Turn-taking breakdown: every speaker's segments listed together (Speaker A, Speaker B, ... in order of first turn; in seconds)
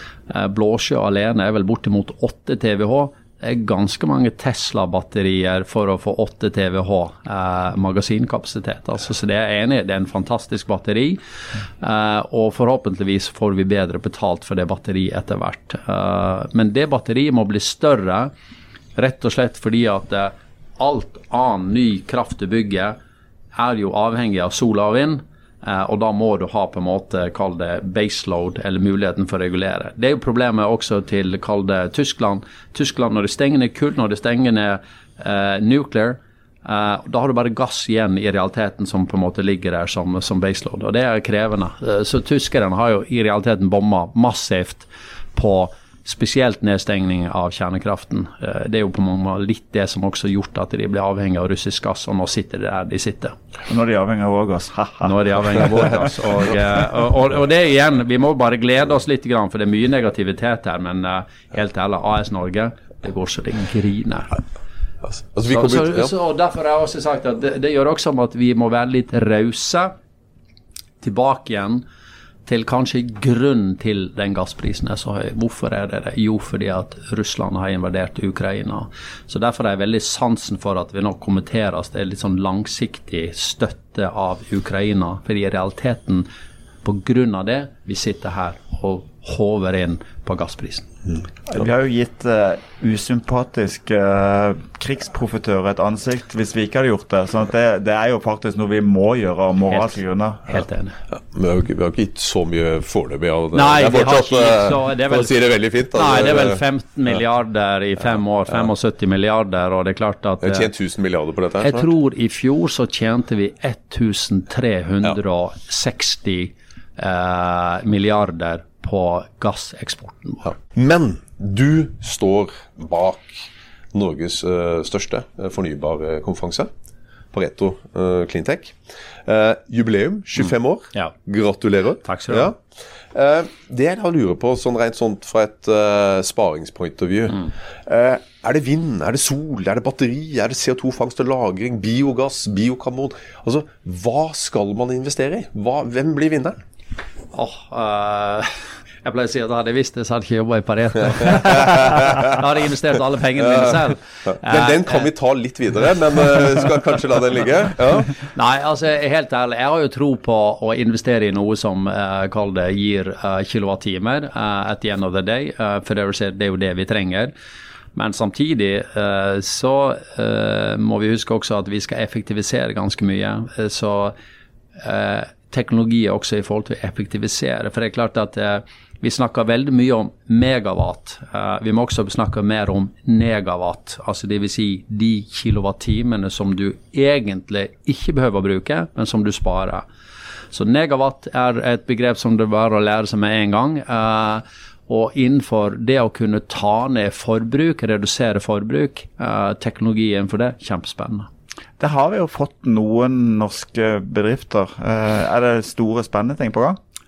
Speaker A: 0.3-11.2, 11.8-18.3, 19.0-23.0, 23.6-53.4, 55.0-64.4, 65.5-69.9, 71.0-71.8, 72.5-86.3, 86.8-90.9, 100.5-101.0, 103.5-105.4, 105.9-110.7, 111.6-120.5, 132.0-132.5, 147.3-155.1, 158.3-167.3, 167.9-174.2, 174.8-189.9, 190.5-201.3
Speaker B: 53.7-55.9, 91.5-100.5, 201.8-206.8
Speaker C: 65.0-66.1, 101.1-106.6, 110.4-111.9, 120.5-126.7, 127.3-132.6, 133.1-146.6, 151.7-151.9, 153.5-158.2